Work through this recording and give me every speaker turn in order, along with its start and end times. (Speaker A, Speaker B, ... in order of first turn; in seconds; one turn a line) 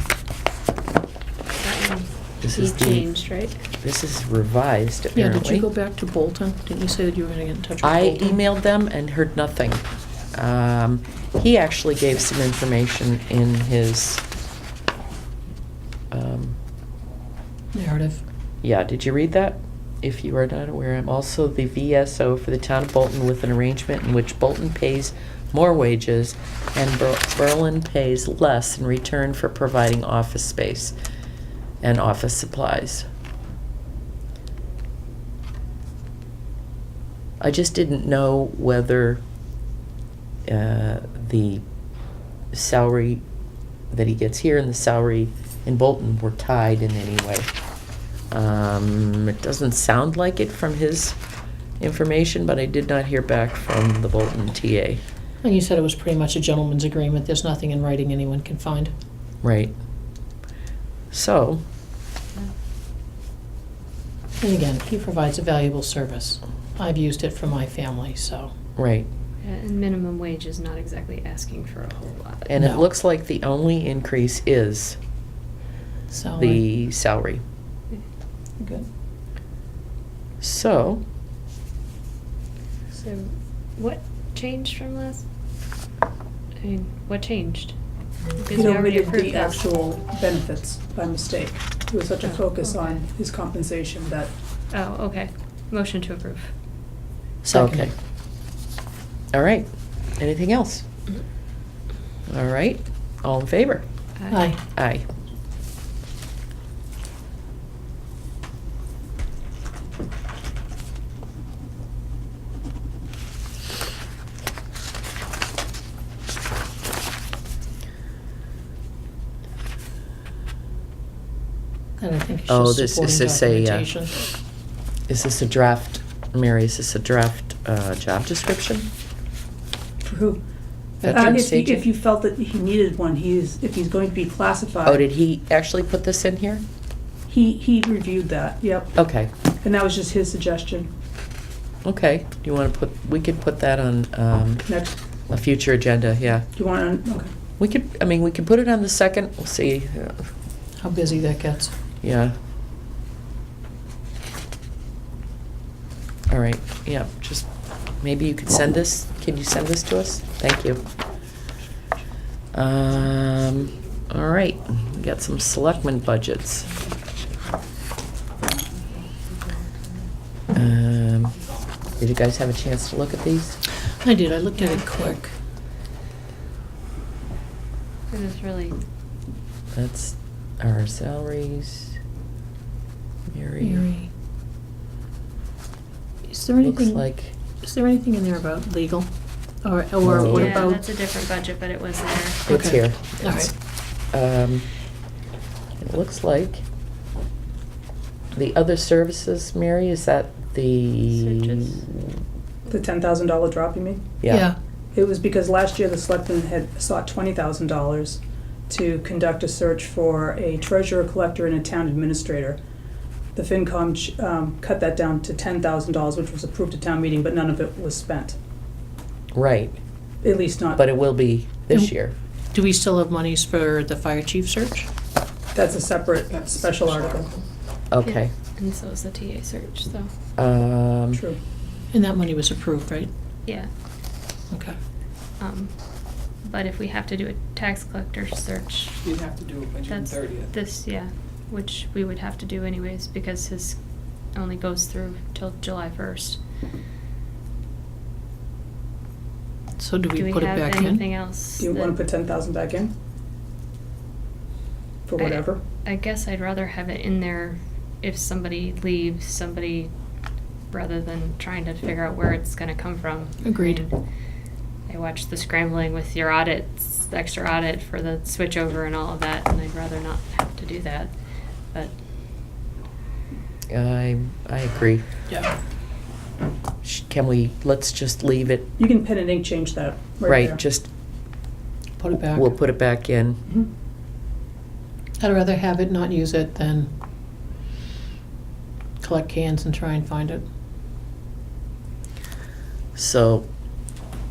Speaker A: 1.6-3.6
Speaker B: 2.4-3.1
Speaker B: 3.8-5.7
Speaker C: 5.1-8.4
Speaker B: 7.8-14.2
Speaker B: 16.1-16.6
Speaker C: 17.7-18.2
Speaker B: 18.6-30.9
Speaker B: 31.8-33.0
Speaker B: 37.4-39.2
Speaker B: 40.5-41.6
Speaker B: 42.5-43.2
Speaker B: 43.9-47.5
Speaker B: 48.3-51.2
Speaker B: 51.8-55.0
Speaker C: 55.4-58.9
Speaker B: 59.4-59.7
Speaker B: 61.1-61.6
Speaker C: 64.4-68.5
Speaker B: 68.8-69.1
Speaker A: 69.4-72.5
Speaker B: 72.5-75.0
Speaker C: 72.6-72.8
Speaker C: 76.1-76.6
Speaker B: 76.4-77.4
Speaker B: 80.4-81.0
Speaker A: 82.9-85.2
Speaker A: 86.6-87.7
Speaker A: 88.4-89.6
Speaker D: 88.5-94.3
Speaker A: 94.7-96.5
Speaker B: 97.4-97.9
Speaker C: 97.5-97.9
Speaker B: 99.3-100.8
Speaker B: 102.3-103.8
Speaker C: 104.3-104.6
Speaker B: 104.7-105.0
Speaker C: 122.0-124.1
Speaker B: 122.5-123.9
Speaker B: 125.1-128.9
Speaker D: 130.0-130.4
Speaker C: 131.0-131.4
Speaker B: 131.0-131.8
Speaker D: 131.1-135.0
Speaker B: 134.8-136.6
Speaker D: 137.3-138.9
Speaker B: 138.9-139.3
Speaker D: 139.6-140.9
Speaker B: 141.8-144.7
Speaker D: 144.7-145.0
Speaker B: 145.3-146.5
Speaker D: 146.5-147.3
Speaker B: 147.6-150.3
Speaker C: 150.8-151.7
Speaker B: 152.0-152.3
Speaker B: 156.3-157.5
Speaker B: 158.0-160.8
Speaker B: 162.5-166.7
Speaker B: 170.5-171.3
Speaker B: 172.0-173.6
Speaker C: 174.0-175.3
Speaker A: 174.6-174.8
Speaker A: 178.1-178.8
Speaker B: 179.7-181.9
Speaker B: 183.3-183.8
Speaker C: 183.6-184.1
Speaker C: 186.2-189.1
Speaker B: 186.6-187.4
Speaker C: 189.6-190.9
Speaker B: 190.0-190.6
Speaker A: 190.2-192.4
Speaker B: 192.5-193.5
Speaker C: 192.5-193.5
Speaker B: 194.1-194.7
Speaker B: 195.8-196.6
Speaker B: 198.3-201.8
Speaker A: 201.1-201.8
Speaker D: 202.7-204.1
Speaker B: 204.2-204.5
Speaker C: 204.3-204.6
Speaker D: 204.9-212.6
Speaker D: 213.3-218.4
Speaker B: 219.3-219.8
Speaker D: 220.2-220.8
Speaker B: 220.8-222.1
Speaker C: 222.5-224.9
Speaker D: 225.5-227.3
Speaker E: 226.3-227.2
Speaker B: 227.9-228.3
Speaker A: 228.0-230.1
Speaker B: 230.4-231.2
Speaker D: 231.1-231.4
Speaker C: 231.9-233.1
Speaker C: 234.5-234.8
Speaker A: 235.4-235.7
Speaker A: 236.4-239.0
Speaker E: 239.0-240.5
Speaker A: 239.8-243.8
Speaker A: 244.3-246.4
Speaker C: 249.8-251.0
Speaker A: 250.1-252.0
Speaker D: 251.6-252.9
Speaker D: 255.1-255.6
Speaker A: 255.2-259.9
Speaker A: 260.7-264.0
Speaker C: 263.4-263.8
Speaker A: 264.9-271.1
Speaker B: 273.7-275.0
Speaker C: 275.3-275.5
Speaker B: 276.8-278.7
Speaker D: 278.8-280.6
Speaker B: 280.2-280.9
Speaker C: 282.0-282.6
Speaker B: 282.2-283.4
Speaker C: 285.2-286.9
Speaker C: 289.0-290.4
Speaker B: 292.9-293.5